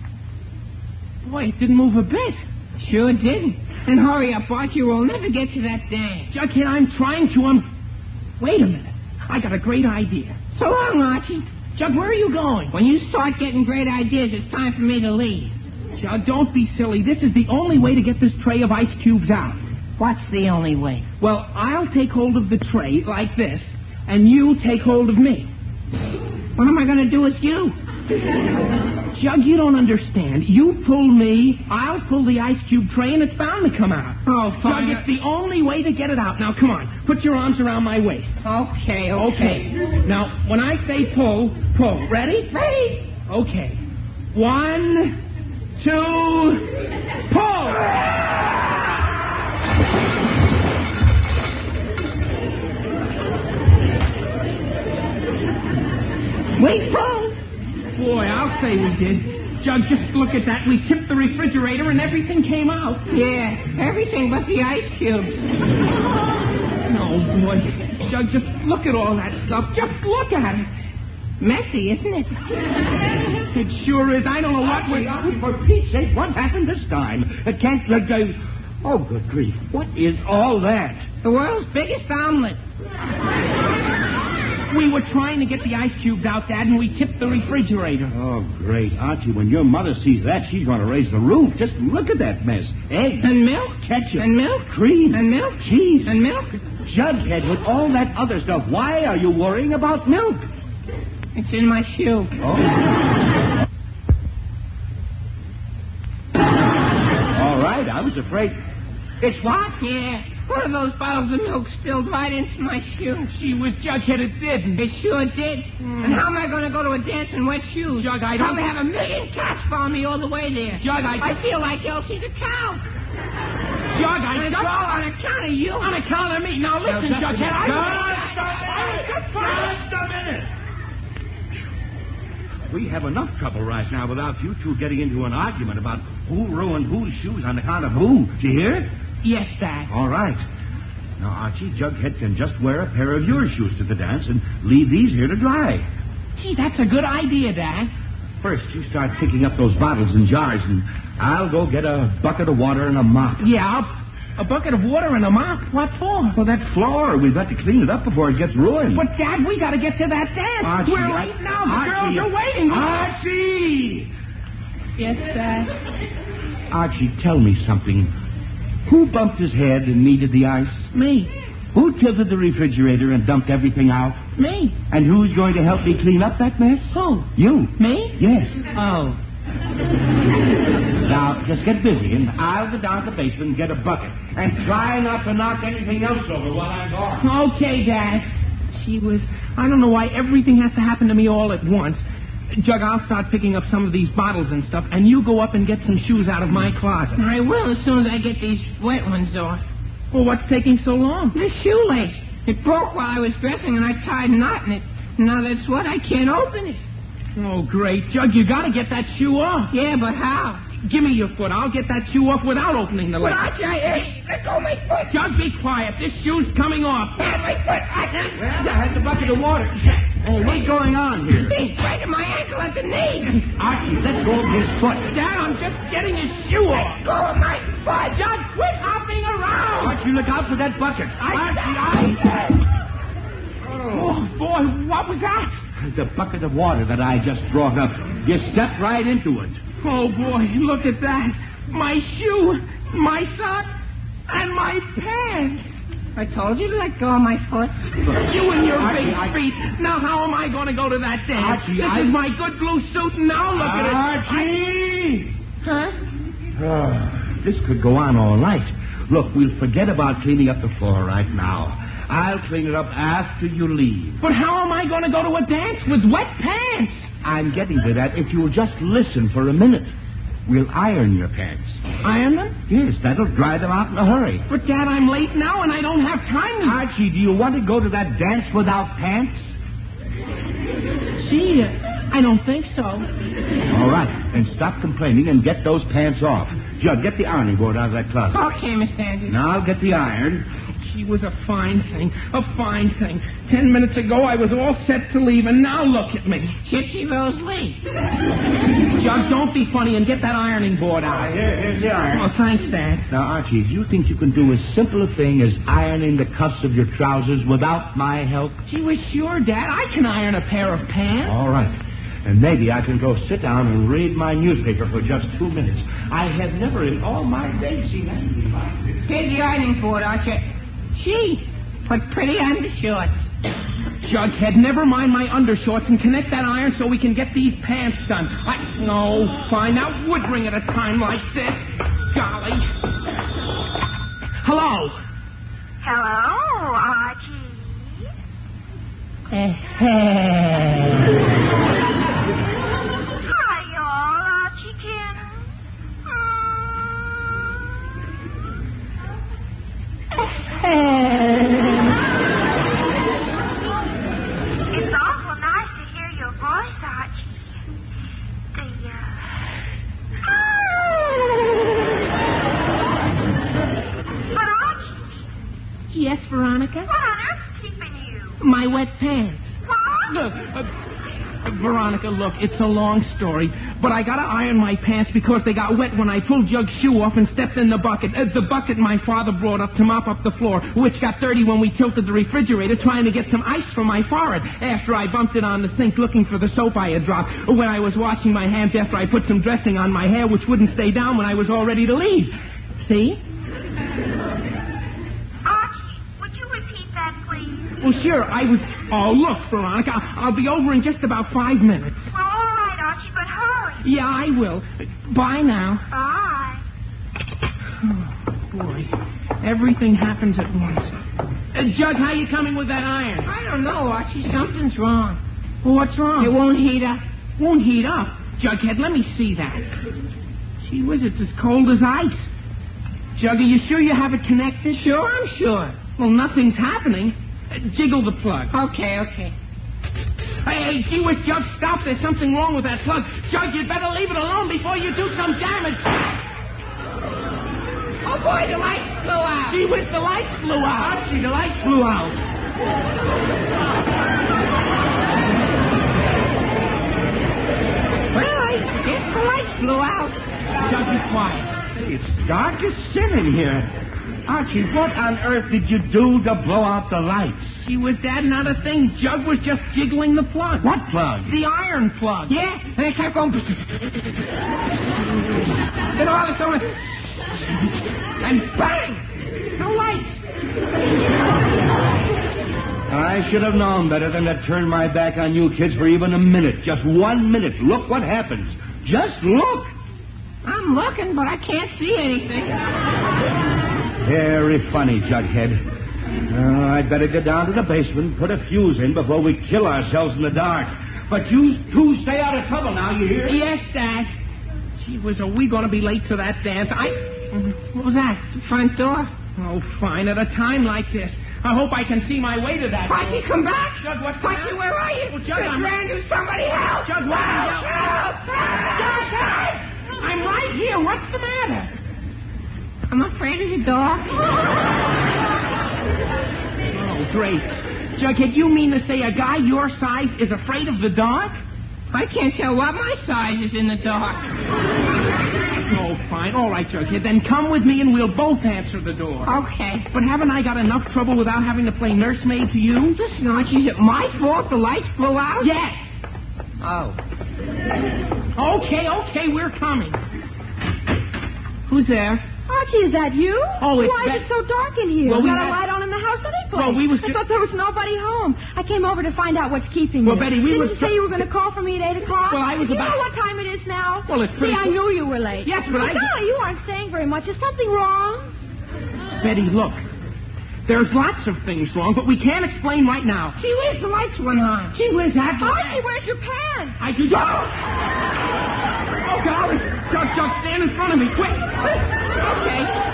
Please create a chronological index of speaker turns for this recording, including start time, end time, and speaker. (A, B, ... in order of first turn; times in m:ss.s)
0:01.2-0:02.4 A
0:02.8-0:06.3 B
0:06.3-0:07.6 A
0:08.4-0:10.4 A
0:10.5-0:11.5 B
0:11.7-0:12.7 A
0:12.7-0:15.6 B
0:16.0-0:19.6 A
0:20.0-0:21.0 B
0:21.2-0:25.5 A
0:26.6-0:27.7 B
0:29.1-0:38.4 A
0:34.2-0:35.0 B
0:38.4-0:39.7 B
0:39.1-0:42.5 A
0:42.5-0:43.0 B
0:43.3-0:43.8 A
0:44.3-0:45.2 A
0:45.8-0:46.7 A
0:47.3-0:48.0 A
0:56.6-0:57.4 B
0:57.9-1:03.0 A
1:03.1-1:05.4 B
1:06.9-1:10.7 A
1:11.4-1:12.4 B
1:13.5-1:15.2 A
1:14.6-1:21.1 C
1:21.2-1:22.6 B
1:24.7-1:28.1 A
1:28.1-1:36.2 C
1:33.2-1:36.6 B
1:36.8-1:40.5 C
1:41.3-1:42.3 B
1:42.4-1:42.8 C
1:47.3-1:48.6 C
1:49.2-1:49.8 C
1:49.8-1:53.3 B
1:53.3-1:54.8 A
1:54.8-2:02.8 B
1:55.8-1:56.2 A
1:57.9-1:58.6 A
2:00.8-2:01.4 A
2:03.9-2:04.9 A
2:04.3-2:05.9 B
2:05.8-2:09.8 A
2:06.8-2:10.5 C
2:07.6-2:09.0 B
2:12.7-2:18.9 C
2:19.2-2:19.9 A
2:19.9-2:20.4 C
2:21.2-2:25.9 C
2:26.4-2:27.9 A
2:28.4-2:33.5 C
2:33.4-2:36.4 A
2:36.3-2:39.0 C
2:38.9-2:42.9 A
2:40.6-2:44.1 C
2:45.0-2:45.7 A
2:46.7-2:48.1 C
2:48.8-2:50.9 C
2:50.9-2:51.3 A
2:51.7-2:54.2 C
2:54.4-2:54.8 A
2:54.9-2:58.6 C
2:56.9-2:58.2 A
2:58.7-2:59.2 A
3:01.0-3:07.3 C
3:07.2-3:12.0 A
3:12.5-3:17.2 A
3:17.2-3:19.6 B
3:20.1-3:21.4 A
3:21.3-3:26.8 B
3:27.4-3:29.7 A
3:29.7-3:30.6 B
3:30.8-3:33.5 A
3:33.2-3:35.2 B
3:35.1-3:37.3 A
3:37.2-3:38.5 B
3:38.3-3:41.6 C
3:41.3-3:43.4 B
3:43.6-3:45.1 C
3:45.1-3:47.0 A
3:46.8-3:48.2 B
3:48.1-3:50.0 A
3:49.8-3:52.2 C
3:51.2-3:52.3 A
3:53.7-3:54.1 C
3:53.9-3:55.5 A
3:55.8-3:59.6 C
3:59.8-4:03.7 A
4:04.3-4:05.6 A
4:06.2-4:07.8 B
4:08.1-4:14.5 A
4:08.7-4:09.4 C
4:11.3-4:12.2 C
4:13.5-4:15.3 C
4:15.6-4:15.9 B
4:16.6-4:24.2 C
4:24.2-4:27.0 A
4:27.2-4:29.9 C
4:30.4-4:31.8 C
4:32.0-4:32.6 A
4:32.7-4:34.4 C
4:34.5-4:36.8 A
4:36.6-4:39.5 C
4:41.2-4:43.1 A
4:43.7-4:48.4 C
4:48.3-4:49.4 B
4:49.2-4:50.5 C
4:50.8-4:56.6 A
4:56.6-4:57.8 B
4:58.9-5:01.3 A
5:01.0-5:02.3 C
5:02.1-5:03.0 A
5:03.1-5:08.6 C
5:08.7-5:11.4 A
5:11.2-5:19.0 C
5:19.0-5:23.2 B
5:24.0-5:32.7 A
5:34.4-5:35.0 A
5:35.8-5:38.1 D
5:43.2-5:45.4 D
5:46.1-5:47.1 D
5:54.7-5:57.3 D
5:58.5-5:59.2 D
6:04.3-6:05.0 D
6:05.9-6:06.9 A
6:06.9-6:08.4 D
6:08.4-6:09.5 A
6:09.6-6:10.2 D
6:10.1-6:10.7 A
6:11.4-6:33.2 A
6:35.4-6:37.7 D
6:37.8-6:42.1 A
6:42.1-6:43.8 D
6:43.8-6:45.8 A
6:45.9-6:46.6 D
6:47.8-6:48.9 A
6:49.4-6:50.9 A
6:51.5-6:53.3 A
6:53.2-6:55.2 B
6:55.6-6:56.4 A
6:56.2-6:57.0 B
6:57.4-6:59.7 A
7:00.6-7:02.2 A
7:03.2-7:04.8 A
7:04.7-7:05.8 B
7:06.0-7:08.5 A
7:08.5-7:09.3 B
7:10.4-7:16.0 A
7:18.0-7:19.6 B
7:19.5-7:21.0 A
7:20.8-7:22.2 C
7:28.1-7:30.2 B
7:30.6-7:31.5 A
7:31.7-7:33.7 C
7:34.2-7:37.5 C
7:37.6-7:40.7 A
7:40.6-7:41.3 C
7:41.2-7:42.3 A
7:42.3-7:43.8 B
7:45.9-7:47.0 B
7:48.2-7:49.0 B
7:49.6-7:50.1 B
7:52.9-7:59.7 C
8:00.4-8:02.6 B
8:04.0-8:05.6 C
8:06.3-8:13.4 C
8:13.2-8:14.1 A
8:14.8-8:18.3 A
8:18.3-8:19.1 B
8:19.4-8:23.2 A
8:22.9-8:29.4 B
8:23.8-8:25.8 A
8:26.8-8:31.7 A
8:32.9-8:34.4 B
8:36.7-8:41.4 A
8:41.9-8:44.3 B
8:45.7-8:49.3 A
8:49.2-8:49.8 B
8:49.9-8:53.0 A
8:53.0-8:55.5 B
8:55.4-8:55.8 A
8:56.6-8:57.0 C
8:58.4-9:00.0 A
9:01.7-9:02.2 B
9:02.4-9:18.4 E
9:03.6-9:04.3 A
9:05.0-9:05.6 A
9:06.5-9:07.2 A
9:10.0-9:11.2 A
9:12.3-9:13.1 A
9:14.1-9:14.8 A
9:15.4-9:16.1 A
9:19.2-9:19.8 A
9:20.6-9:23.4 A
9:23.4-9:24.8 B
9:24.7-9:25.8 A
9:25.4-9:26.8 E
9:26.8-9:27.6 A
9:29.0-9:31.6 A
9:32.2-9:32.7 B